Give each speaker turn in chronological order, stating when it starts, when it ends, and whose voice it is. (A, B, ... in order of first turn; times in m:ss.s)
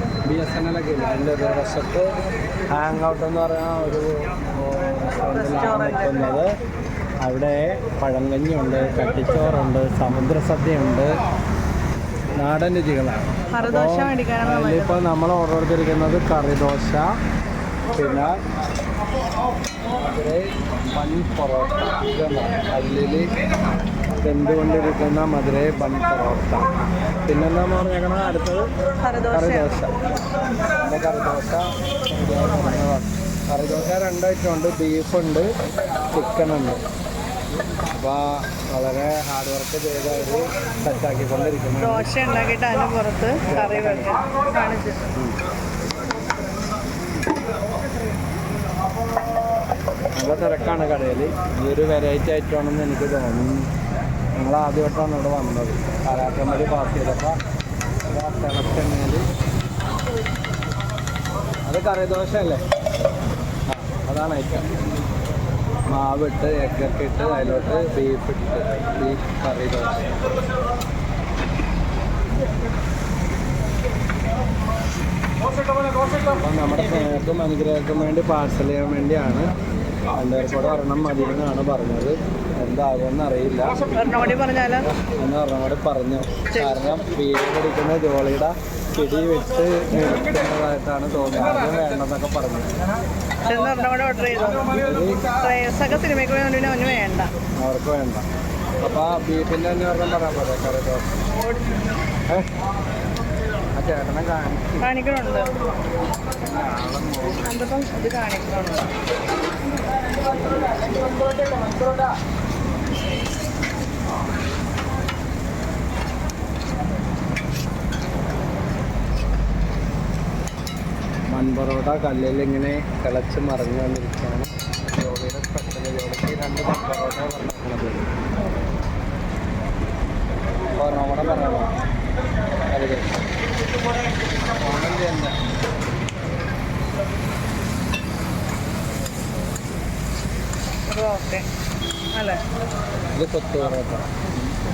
0:00.3-0:02.1 A
0:02.7-0:06.5 A
0:05.3-0:06.4 B
0:07.2-0:11.1 A
0:12.4-0:17.1 A
0:13.5-0:15.0 B
0:17.9-0:18.3 A
0:20.0-0:23.3 A
0:24.2-0:26.7 A
0:27.2-0:28.7 A
0:29.0-0:29.7 B
0:29.3-0:29.9 A
0:30.8-0:35.5 A
0:36.1-0:36.8 A
0:38.0-0:42.1 A
0:41.8-0:45.1 B
0:43.4-0:44.2 A
0:50.2-0:53.7 A
0:54.4-0:57.4 A
0:58.1-0:59.2 A
1:01.7-1:02.6 A
1:03.7-1:04.7 A
1:05.9-1:10.1 A
1:16.3-1:19.5 A
1:20.1-1:23.9 A
1:24.0-1:24.9 B
1:24.9-1:32.7 A
1:33.4-1:37.3 B
1:34.8-1:35.3 A
1:37.6-1:38.2 A
1:38.8-1:41.2 A
1:43.8-1:44.9 A
1:44.8-1:45.5 B
1:46.4-1:47.4 A
1:47.4-1:48.9 B
2:01.3-2:08.1 A
2:10.8-2:11.7 A
2:12.7-2:13.1 A
2:14.5-2:15.3 A
2:20.9-2:21.4 B
2:22.1-2:22.4 B
2:23.1-2:24.1 A